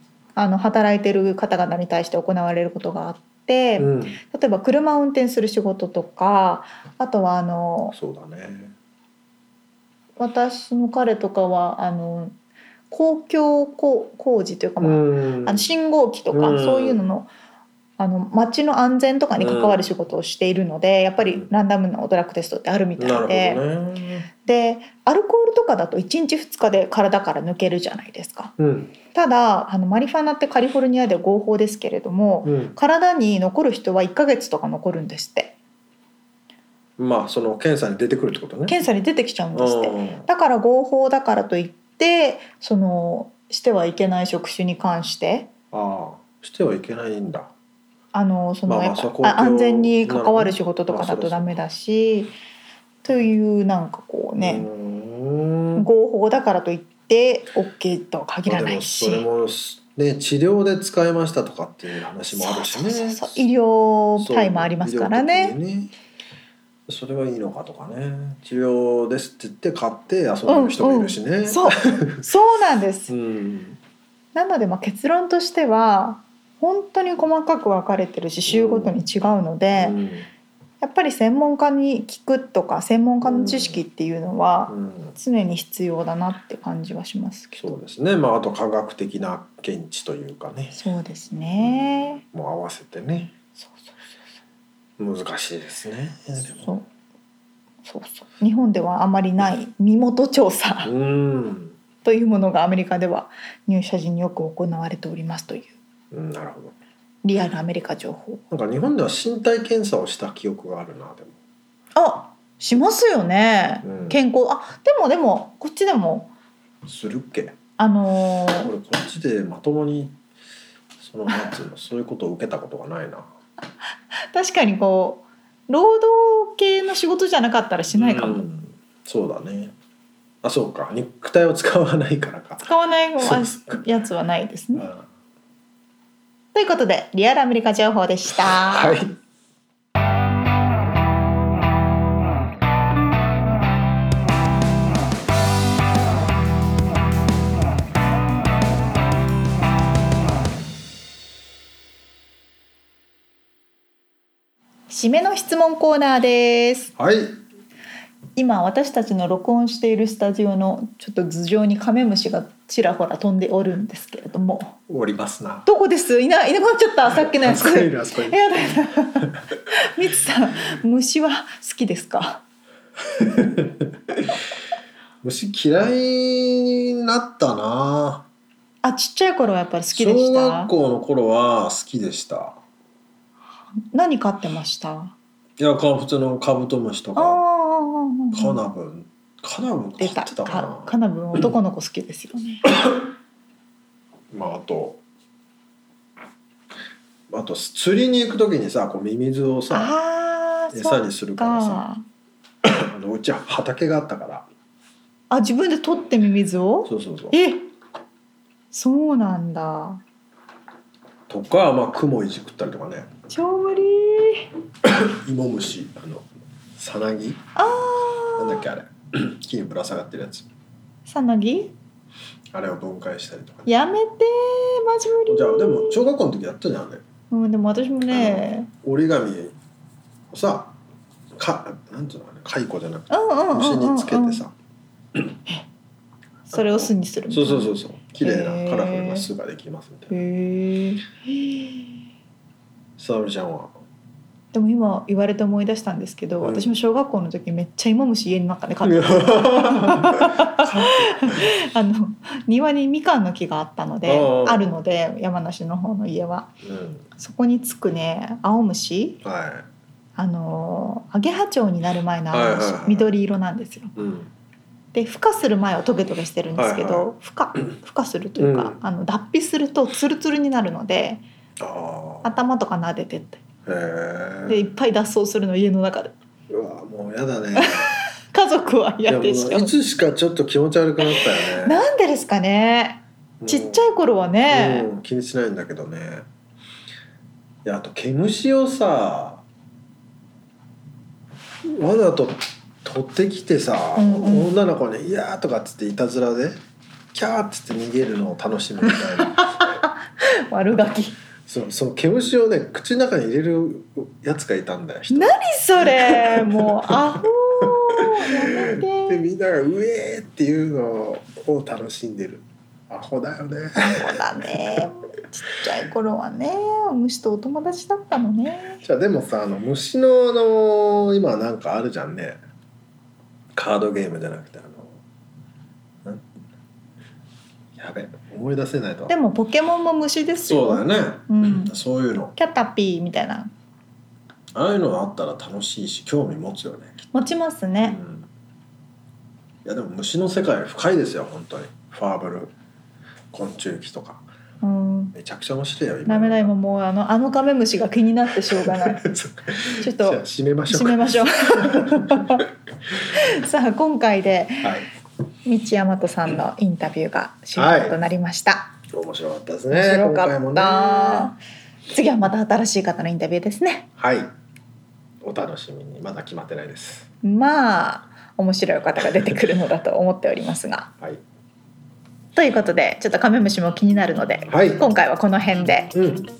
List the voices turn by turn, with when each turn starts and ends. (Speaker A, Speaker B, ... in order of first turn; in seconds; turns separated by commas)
Speaker A: 0.3-8.0, Speaker B: 3.8-4.2, Speaker B: 7.9-8.7, Speaker A: 10.2-12.3, Speaker A: 12.9-17.3, Speaker B: 14.8-15.6, Speaker B: 16.3-17.0, Speaker A: 18.0-23.6, Speaker B: 19.4-19.9, Speaker B: 21.2-21.5, Speaker B: 23.0-24.3, Speaker A: 24.4-28.5, Speaker B: 28.6-28.9, Speaker A: 29.1-35.5, Speaker B: 32.4-32.8, Speaker B: 37.0-38.8, Speaker A: 38.7-45.5, Speaker B: 39.5-40.3, Speaker B: 45.7-47.5, Speaker A: 48.1-52.3, Speaker B: 48.6-51.6, Speaker A: 53.0-54.7, Speaker B: 54.4-55.9, Speaker A: 55.8-59.2, Speaker B: 58.5-63.4, Speaker A: 62.3-65.6, Speaker B: 64.2-65.9, Speaker B: 66.9-72.2, Speaker A: 70.5-73.1, Speaker B: 73.1-73.8, Speaker A: 74.3-80.0, Speaker B: 78.5-79.0, Speaker B: 79.7-80.3, Speaker A: 80.8-87.8, Speaker B: 83.2-83.8, Speaker B: 84.7-85.2, Speaker B: 87.6-90.8, Speaker A: 90.7-92.2, Speaker B: 91.6-93.3, Speaker A: 93.6-94.0, Speaker B: 95.0-96.7, Speaker A: 96.6-96.9, Speaker A: 97.8-100.9, Speaker B: 100.8-101.8, Speaker A: 102.0-105.7, Speaker B: 106.1-106.7, Speaker A: 107.2-108.4, Speaker B: 108.5-111.3, Speaker A: 111.9-116.3, Speaker B: 113.8-114.2, Speaker B: 116.8-117.5, Speaker A: 117.8-118.7, Speaker B: 118.6-120.2, Speaker B: 121.0-123.3, Speaker A: 124.3-128.4, Speaker B: 127.9-129.7, Speaker B: 130.4-133.8, Speaker A: 132.7-134.9, Speaker B: 134.7-135.1, Speaker A: 136.5-139.0, Speaker B: 138.3-139.2, Speaker A: 154.9-156.9, Speaker B: 157.0-157.4, Speaker A: 158.3-164.8, Speaker B: 164.9-165.7, Speaker A: 165.7-172.4, Speaker B: 167.1-169.3, Speaker B: 173.2-174.3, Speaker B: 175.2-178.3, Speaker A: 178.8-180.7, Speaker B: 179.9-182.6, Speaker A: 183.9-185.1, Speaker B: 185.6-187.4, Speaker A: 187.1-188.6, Speaker B: 188.3-190.9, Speaker A: 190.0-192.7, Speaker B: 194.3-195.0, Speaker B: 197.3-199.9, Speaker A: 199.7-202.0, Speaker B: 200.7-201.8, Speaker B: 202.6-204.5, Speaker A: 205.3-207.7, Speaker B: 206.9-207.4, Speaker A: 208.7-210.0, Speaker B: 211.3-213.1, Speaker A: 213.3-214.5, Speaker B: 214.8-220.5, Speaker A: 217.6-218.7, Speaker A: 221.1-221.7, Speaker B: 222.5-223.7, Speaker A: 223.7-226.1, Speaker B: 225.3-227.0, Speaker A: 227.3-228.7, Speaker B: 228.1-229.6, Speaker B: 230.3-230.8, Speaker B: 231.3-234.5, Speaker A: 233.1-234.4, Speaker A: 236.4-239.3, Speaker B: 236.5-240.2, Speaker A: 240.1-242.0, Speaker B: 243.0-243.7, Speaker A: 244.5-256.5, Speaker B: 246.4-246.7, Speaker B: 248.8-251.5, Speaker B: 254.1-254.8, Speaker B: 256.6-257.1, Speaker A: 257.1-259.2, Speaker B: 259.2-259.7, Speaker A: 260.1-263.9, Speaker B: 262.3-263.1, Speaker B: 263.9-264.3, Speaker A: 264.9-271.2, Speaker B: 266.6-267.1, Speaker B: 268.4-268.8, Speaker B: 271.6-272.4, Speaker A: 272.2-273.4, Speaker B: 273.6-274.7, Speaker A: 274.4-276.1, Speaker B: 276.5-277.9, Speaker A: 277.6-279.7, Speaker B: 279.1-281.8, Speaker A: 281.0-284.9, Speaker B: 283.4-283.9, Speaker B: 284.5-286.2, Speaker B: 287.6-289.4, Speaker B: 291.7-296.6, Speaker A: 293.9-294.5, Speaker B: 297.1-299.6, Speaker A: 299.3-301.2, Speaker B: 301.5-314.9, Speaker A: 305.1-309.2, Speaker A: 313.8-318.8, Speaker B: 318.8-322.4, Speaker B: 323.5-325.0, Speaker B: 327.8-329.1, Speaker A: 329.1-331.7, Speaker B: 330.4-332.3, Speaker A: 332.3-333.5, Speaker B: 334.5-336.9, Speaker A: 337.1-338.0, Speaker B: 337.8-338.3, Speaker B: 339.6-342.5, Speaker B: 343.3-344.2, Speaker A: 344.6-345.1, Speaker B: 345.1-346.5, Speaker A: 346.1-349.1, Speaker B: 348.6-352.4, Speaker A: 349.8-352.5, Speaker A: 353.0-354.7, Speaker A: 355.4-358.7, Speaker B: 357.6-358.0, Speaker B: 358.9-361.3, Speaker A: 359.7-361.4, Speaker A: 361.9-363.9, Speaker B: 364.0-364.3, Speaker B: 365.2-367.1, Speaker A: 367.2-370.9, Speaker A: 372.4-375.9, Speaker B: 374.5-374.9, Speaker B: 375.9-376.3